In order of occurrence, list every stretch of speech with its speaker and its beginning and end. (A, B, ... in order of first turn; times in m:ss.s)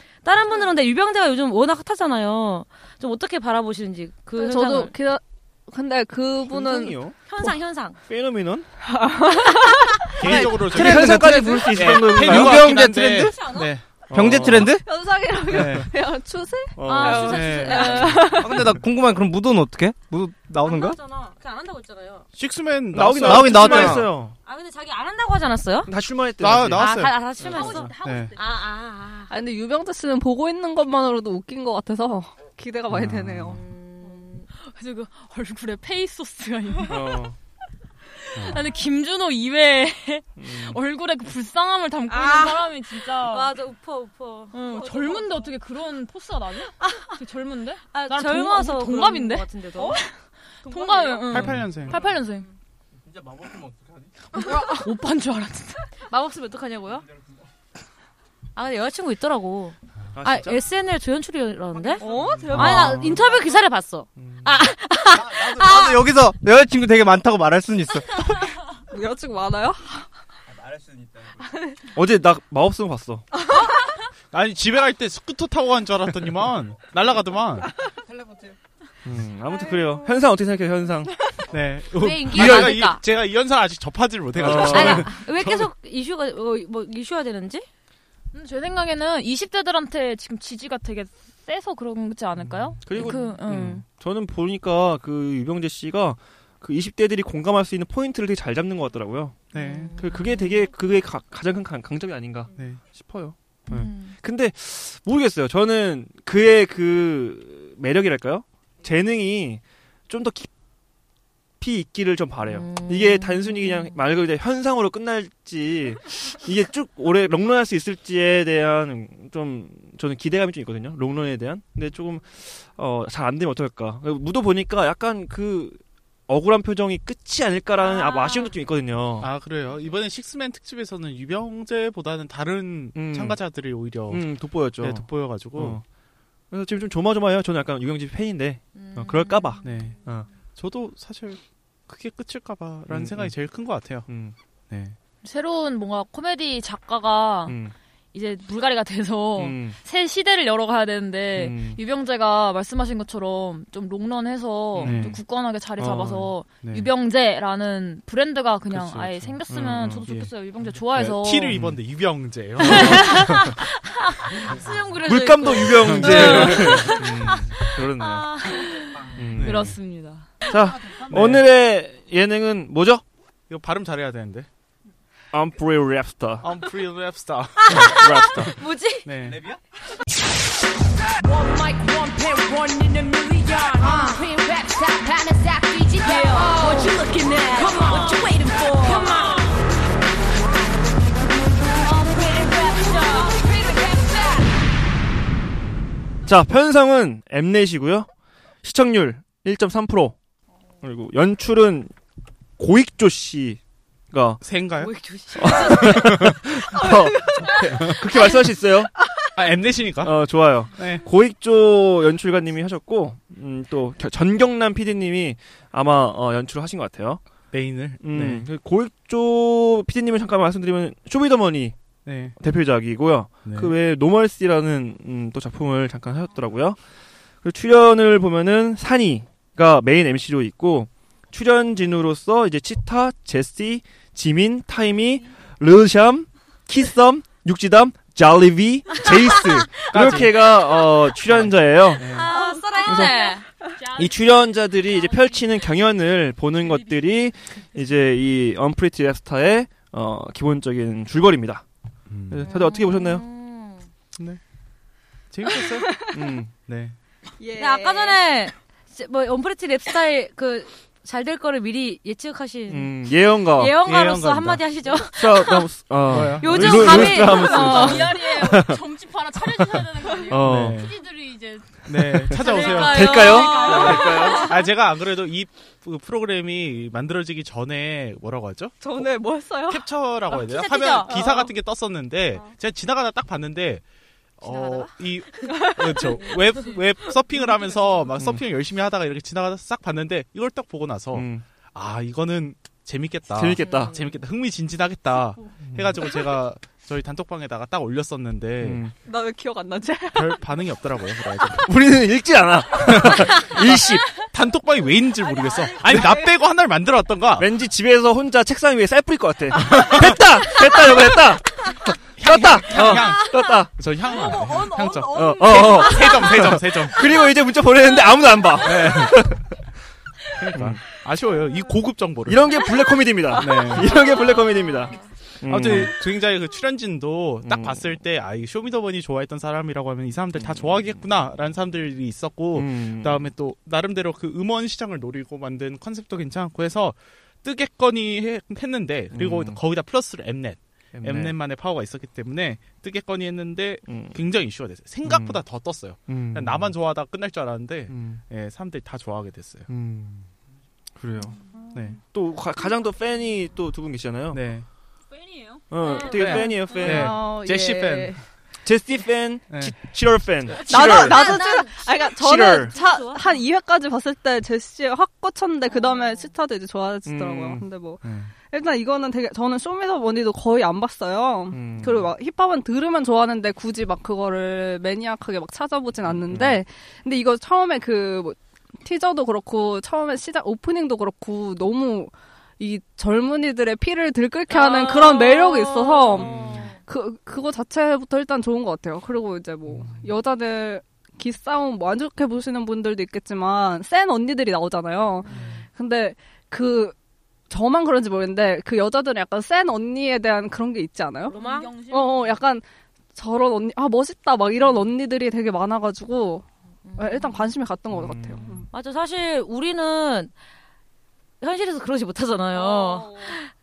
0:00.2-0:04.9 A
0:04.4-0:07.5 B
0:06.4-0:07.2 C
0:07.3-0:08.0 A
0:08.1-0:08.7 C
0:08.9-0:10.0 B
0:10.2-0:14.3 D
0:10.2-0:12.8 C
0:10.2-0:13.6 E
0:14.1-0:14.8 C
0:14.1-0:14.8 E
0:14.8-0:18.7 B
0:15.5-0:15.9 D
0:16.8-0:18.2 C
0:16.8-0:18.4 A
0:17.2-0:18.1 D
0:18.3-0:21.0 E
0:20.6-0:22.2 A
0:22.3-0:24.0 D
0:22.9-0:24.3 C
0:23.1-0:24.1 E
0:24.4-0:25.9 A
0:25.9-0:26.9 C
0:26.4-0:28.3 D
0:26.7-0:29.3 A
0:27.4-0:27.8 C
0:27.5-0:28.3 F
0:29.3-0:33.6 B
0:32.9-0:33.6 D
0:33.5-0:34.5 A
0:34.5-0:37.2 F
0:36.9-0:37.4 C
0:38.3-0:43.5 F
0:38.3-0:38.6 D
0:40.4-0:40.8 C
0:42.0-0:45.3 A
0:44.5-0:50.1 F
0:46.8-0:47.2 A
0:47.9-0:50.0 A
0:50.6-0:52.5 F
0:50.7-0:51.5 A
0:51.3-0:52.1 D
0:53.1-0:54.1 E
0:54.3-0:56.1 F
0:56.1-0:57.0 A
0:56.6-0:57.0 F
0:58.5-1:06.0 A
1:00.1-1:00.6 C
1:02.0-1:03.4 B
1:02.5-1:03.2 C
1:04.2-1:04.4 C
1:05.1-1:08.2 E
1:08.9-1:10.1 B
1:11.4-1:11.8 B
1:11.9-1:13.2 C
1:14.3-1:17.7 D
1:19.0-1:21.2 C
1:21.5-1:25.7 D
1:21.9-1:23.0 A
1:22.3-1:22.9 C
1:24.4-1:25.1 C
1:24.4-1:27.6 A
1:28.3-1:33.8 F
1:32.5-1:32.8 D
1:32.8-1:39.4 C
1:33.0-1:33.4 A
1:33.4-1:33.8 D
1:39.5-1:39.9 D
1:39.5-1:40.6 A
1:40.0-1:50.5 C
1:42.5-1:42.8 D
1:43.7-1:44.1 A
1:51.6-2:09.3 C
1:52.5-1:53.9 A
2:07.8-2:08.5 A
2:09.2-2:15.8 D
2:12.9-2:13.4 C
2:14.0-2:15.8 C
2:16.5-2:20.3 C
2:18.7-2:19.8 A
2:19.6-2:20.0 D
2:20.6-2:24.1 D
2:22.9-2:23.4 C
2:24.1-2:24.3 C
2:24.7-2:25.0 D
2:25.2-2:27.6 F
2:27.4-2:27.7 C
2:28.1-2:41.6 F
2:29.4-2:29.8 C
2:31.4-2:31.8 C
2:34.8-2:35.2 C
2:34.8-2:35.2 D
2:35.8-2:36.3 C
2:36.6-2:36.9 D
2:38.7-2:39.4 D
2:39.5-2:40.1 C
2:40.0-2:40.3 D
2:40.9-2:43.5 D
2:41.5-2:41.8 C
2:42.8-2:48.7 A
2:45.0-2:48.3 C
2:45.9-2:47.0 D
2:46.1-2:46.8 F
2:48.7-2:50.3 F
2:49.1-2:49.8 C
2:49.4-2:49.7 D
2:50.5-2:53.0 C
2:51.1-2:51.5 D
2:53.5-2:54.5 D
2:55.3-2:56.5 C
2:56.4-2:58.0 D
2:57.7-2:58.5 C
2:57.7-2:59.1 A
2:59.0-2:59.5 D
2:59.3-2:59.6 E
3:01.2-3:09.5 G
3:06.2-3:06.8 A
3:12.0-3:14.4 G
3:16.2-3:18.1 C
3:18.6-3:20.2 C
3:20.8-3:21.9 C
3:22.6-3:23.6 C
3:24.1-3:24.4 C
3:24.4-3:24.9 D
3:24.8-3:26.1 A
3:25.4-3:28.9 C
3:25.4-3:26.4 D
3:27.5-3:28.0 D
3:29.3-3:30.1 D
3:30.0-3:37.2 C
3:30.7-3:31.0 D
3:37.5-3:38.4 D
3:38.0-3:41.7 C
3:42.0-3:42.4 D
3:42.4-3:46.8 C
3:43.4-3:43.7 D
3:47.4-4:02.1 C
3:59.9-4:00.5 D
4:01.2-4:02.3 D
4:02.1-4:03.4 A
4:02.8-4:03.2 C
4:03.9-4:11.6 C
4:12.1-4:12.5 D
4:12.3-4:13.2 C
4:12.5-4:13.9 A
4:14.1-4:14.4 D
4:15.3-4:16.0 D
4:16.1-4:16.5 C
4:16.7-4:17.0 D
4:17.4-4:18.2 B
4:17.6-4:25.7 A
4:22.7-4:23.8 C
4:23.8-4:24.6 D
4:25.1-4:30.8 C
4:26.1-4:27.3 D
4:26.4-4:28.3 A
4:27.2-4:34.6 F
4:30.4-4:31.0 D
4:31.8-4:38.8 D
4:32.0-4:34.5 C
4:32.8-4:34.2 A
4:33.7-4:34.0 B
4:38.8-4:39.8 B
4:39.7-4:43.8 D
4:40.3-4:41.5 A
4:41.1-4:41.4 B
4:44.4-4:58.8 D
4:44.4-4:45.5 A
4:45.6-4:45.8 B
4:48.2-4:48.4 C
4:51.1-4:51.4 C
4:53.3-4:53.9 C
4:53.6-4:53.9 A
4:58.6-4:58.9 C
4:59.0-5:00.4 B
5:00.1-5:01.8 D
5:01.6-5:04.2 C
5:02.8-5:07.5 D
5:07.4-5:13.7 C
5:09.5-5:10.2 D
5:12.2-5:17.3 D
5:14.1-5:15.8 F
5:15.1-5:19.5 C
5:18.6-5:19.3 D
5:20.3-5:22.4 D
5:20.5-5:20.8 C
5:22.2-5:26.0 C
5:23.3-5:24.0 D
5:25.4-5:49.7 D
5:27.4-5:27.9 C
5:30.4-5:31.0 C
5:32.5-5:33.3 C
5:39.1-5:39.6 C
5:40.9-5:41.3 C
5:43.9-5:44.2 C
5:45.0-5:45.4 C
5:46.1-5:46.7 C
5:47.9-5:48.2 C
5:49.7-5:50.3 C
5:51.0-5:51.4 C
5:51.7-5:52.0 D
5:52.1-5:54.4 C
5:54.3-5:54.6 D
5:55.5-5:56.0 F
5:55.7-5:57.2 C
5:56.1-5:58.2 D
5:56.2-5:58.2 B
5:58.6-6:01.4 C
5:59.5-5:59.7 D
6:00.6-6:36.9 B
6:00.9-6:01.9 A
6:02.1-6:02.7 C
6:02.7-6:03.4 A
6:07.0-6:07.6 C
6:08.0-6:08.3 D
6:11.5-6:12.1 C
6:16.1-6:16.6 C
6:24.5-6:26.7 A
6:26.1-6:26.6 C
6:29.7-6:29.9 D
6:37.5-6:41.4 B
6:41.3-6:41.8 A
6:41.3-6:42.3 F
6:41.9-6:46.4 B
6:46.8-6:47.4 A
6:47.0-6:48.7 B
6:47.9-6:48.5 C
6:48.7-6:50.3 A
6:51.4-6:53.5 A
6:52.6-6:53.3 B